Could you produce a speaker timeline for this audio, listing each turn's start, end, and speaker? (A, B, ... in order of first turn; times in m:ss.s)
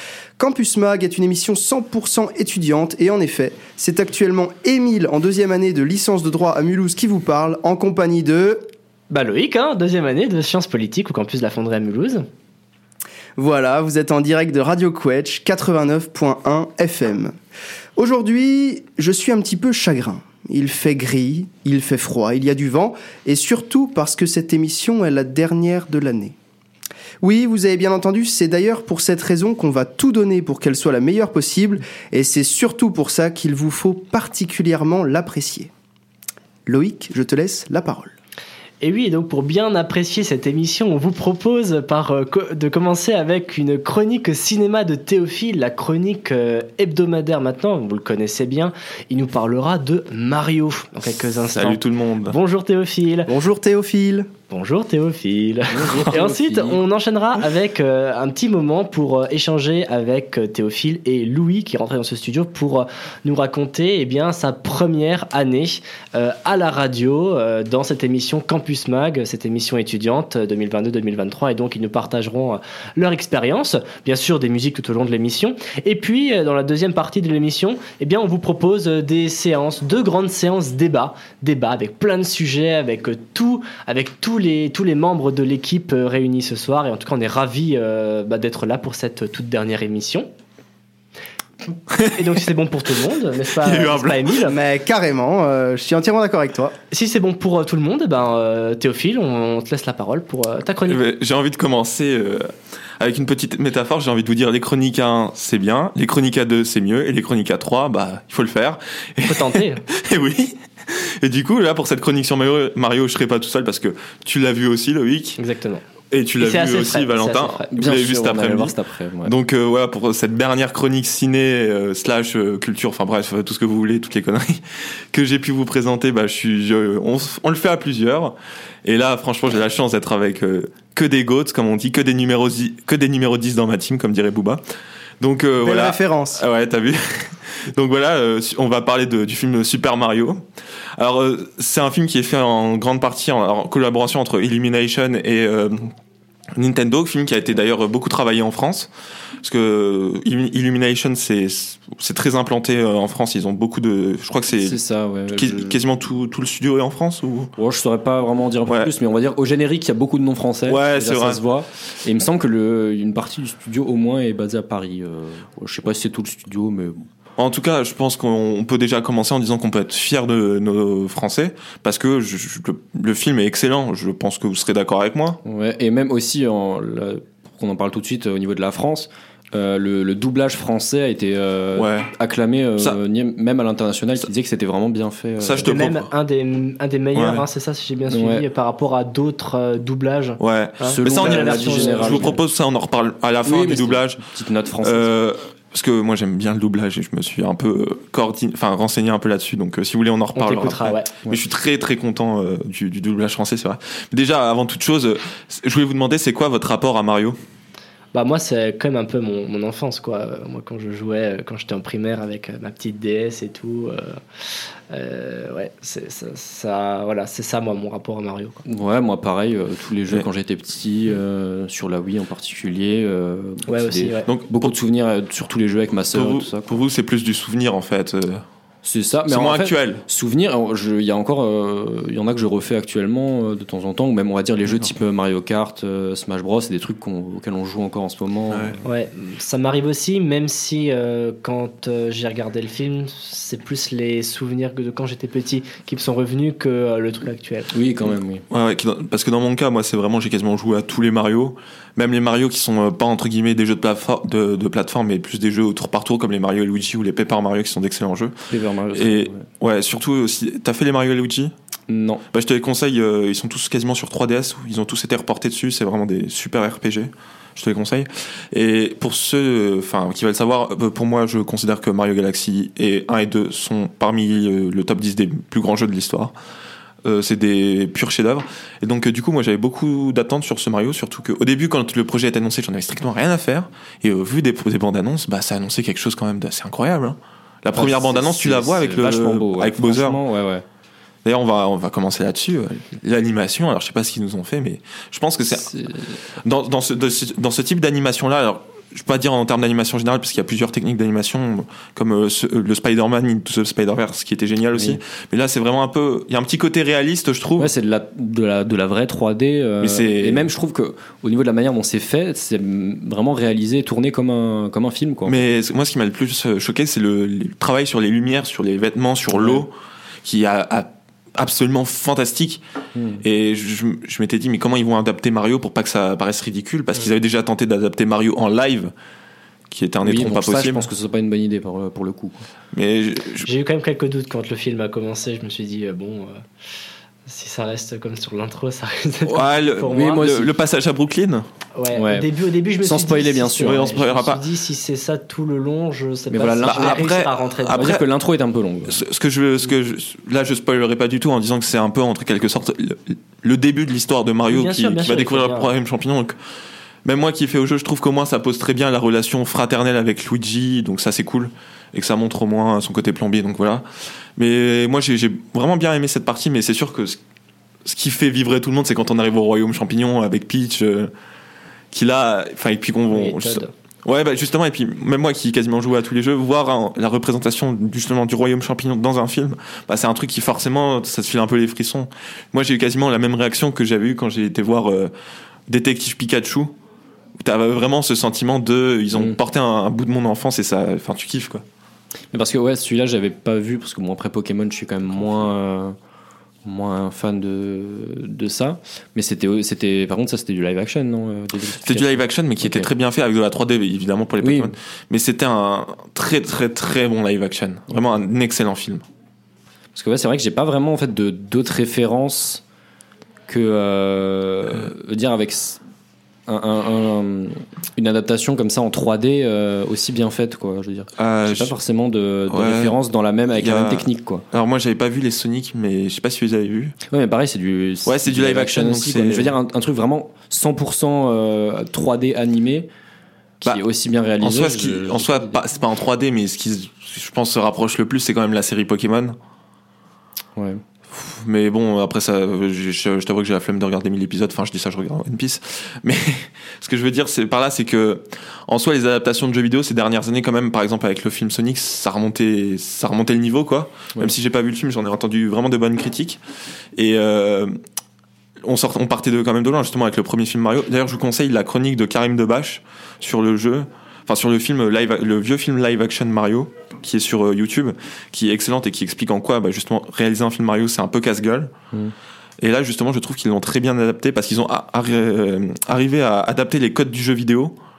0:00.4-0:08.7 A
0:09.1-0:12.2 B
0:13.4-0:17.4 A
0:18.0-0:26.4 A
0:27.2-0:35.7 A
0:36.7-0:38.1 A
0:38.8-0:53.3 B
0:51.4-0:52.4 C
0:53.3-0:54.3 A
0:54.5-1:30.3 B
0:55.7-0:56.8 D
1:31.9-1:32.3 C
1:32.1-1:34.6 B
1:33.6-1:34.3 C
1:34.5-1:36.7 A
1:36.9-1:41.0 B
1:40.9-1:55.4 C
1:49.2-1:49.8 B
1:55.4-1:55.8 B
1:56.1-2:14.6 C
1:56.4-1:57.7 B
1:57.7-1:59.3 D
2:15.2-2:20.4 C
2:15.6-2:16.4 A
2:21.0-2:25.9 C
2:26.6-2:28.9 C
2:29.4-2:37.5 C
2:34.6-2:35.8 D
2:37.6-2:47.1 D
2:38.7-2:38.9 C
2:40.7-2:41.4 C
2:47.4-2:55.4 C
2:55.4-3:05.7 D
3:01.8-3:02.1 C
3:05.4-3:06.1 C
3:05.6-3:12.3 B
3:07.1-3:07.4 C
3:08.1-3:08.5 D
3:10.4-3:14.2 C
3:10.8-3:12.4 D
3:13.5-3:15.1 D
3:14.8-3:27.4 C
3:20.3-3:21.1 B
3:28.1-3:34.2 B
3:34.9-3:38.6 B
3:38.7-3:46.8 D
3:43.7-3:44.3 B
3:44.2-3:44.7 C
3:46.1-3:48.4 C
3:48.8-3:58.8 D
3:49.3-3:50.0 C
3:58.8-4:07.7 B
4:07.7-4:08.4 D
4:08.5-4:18.4 C
4:18.5-4:19.4 D
4:18.9-4:21.5 C
4:21.9-4:22.2 D
4:22.3-4:36.3 C
4:37.0-4:50.2 C
4:47.7-4:50.6 D
4:51.2-4:55.7 C
4:55.5-4:56.1 D
4:56.4-5:07.7 C
5:07.6-5:15.4 D
5:09.8-5:10.4 C
5:15.3-5:19.7 C
5:19.4-5:19.6 D
5:20.2-5:22.6 C
5:22.9-5:23.2 D
5:23.2-5:28.9 C
5:29.7-5:30.9 C
5:30.0-5:32.5 D
5:32.7-5:33.5 C
5:33.4-5:36.4 B
5:37.2-5:40.3 B
5:39.2-5:41.4 C
5:39.9-5:40.5 D
5:41.8-5:47.9 B
5:41.9-5:42.3 D
5:42.8-5:43.8 D
5:43.6-5:44.4 C
5:46.3-5:47.1 D
5:46.6-5:48.0 C
5:47.7-5:49.0 D
5:48.9-5:56.3 C
5:54.5-5:55.7 B
5:57.0-6:03.8 C
6:04.4-6:07.2 C
6:07.8-6:11.1 C
6:11.9-6:25.1 C
6:13.1-6:13.7 B
6:25.7-6:26.7 C
6:27.4-6:31.6 C
6:32.3-6:36.0 D
6:36.6-6:42.9 D
6:41.8-6:49.0 C
6:44.4-6:44.7 D
6:49.9-6:52.6 D
6:53.5-6:55.8 D
6:56.5-7:04.4 D
7:01.2-7:01.8 C
7:02.5-7:03.0 C
7:03.6-7:07.0 C
7:07.1-7:12.9 D
7:08.1-7:09.5 C
7:13.6-7:15.6 D
7:14.4-7:19.4 C
7:20.6-7:20.8 D
7:21.1-7:36.4 C
7:37.0-7:37.7 C
7:38.6-7:51.7 C
7:52.6-7:57.8 C